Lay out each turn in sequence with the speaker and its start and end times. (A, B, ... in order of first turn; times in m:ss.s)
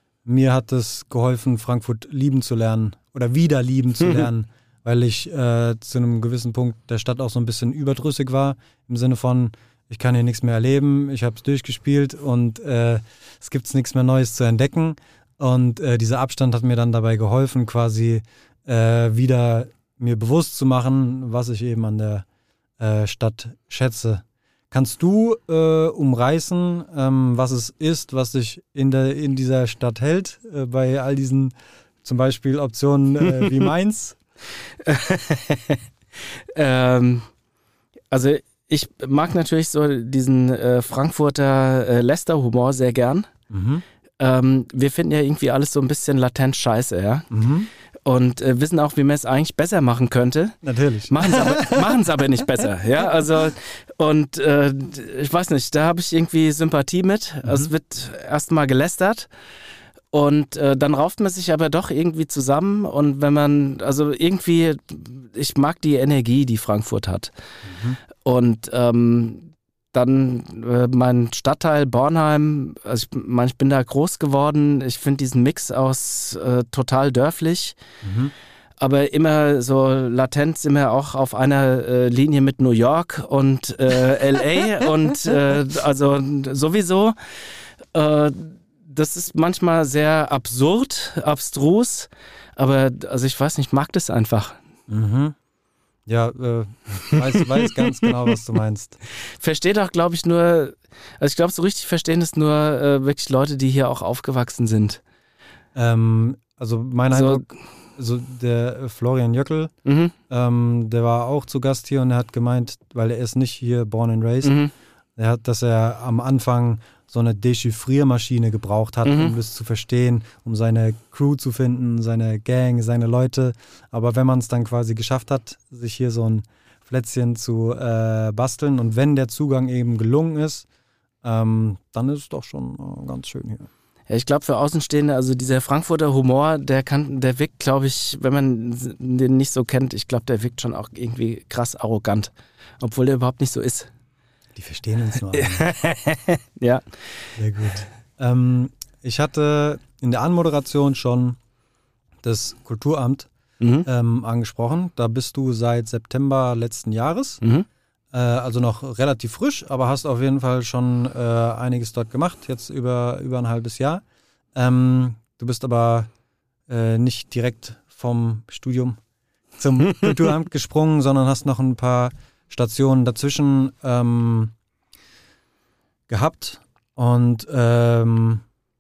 0:00.2-0:22.2 A
0:22.8-0:34.2 A
0:34.8-0:35.8 B
0:36.5-0:37.3 B
0:38.1-0:43.3 B
0:43.5-0:43.8 A
0:44.2-0:47.3 B
0:47.3-0:47.7 A
0:48.0-0:50.6 B
0:50.6-0:52.1 A
0:51.1-0:59.3 B
0:57.4-0:57.7 A
1:00.1-1:07.3 B
1:07.7-1:08.0 A
1:08.2-1:17.8 B
1:18.0-1:18.3 A
1:18.8-1:27.2 B
1:27.9-1:34.6 B
1:34.9-1:35.4 A
1:36.1-1:39.0 A
1:39.4-1:45.0 B
1:45.8-1:49.7 A
1:47.1-1:47.5 B
1:49.9-1:50.1 B
1:50.3-1:54.6 A
1:54.4-1:54.7 B
1:55.2-2:10.7 A
1:59.0-1:59.3 B
2:11.2-2:13.7 A
2:14.1-2:23.9 B
2:24.6-2:25.7 A
2:25.3-2:26.8 B
2:27.4-2:31.4 A
2:32.2-2:33.3 A
2:33.6-2:33.9 B
2:33.8-2:37.4 A
2:37.4-2:37.7 B
2:38.1-2:44.0 A
2:44.6-2:46.1 A
2:46.7-2:49.0 A
2:49.6-2:54.5 A
2:56.1-2:58.4 A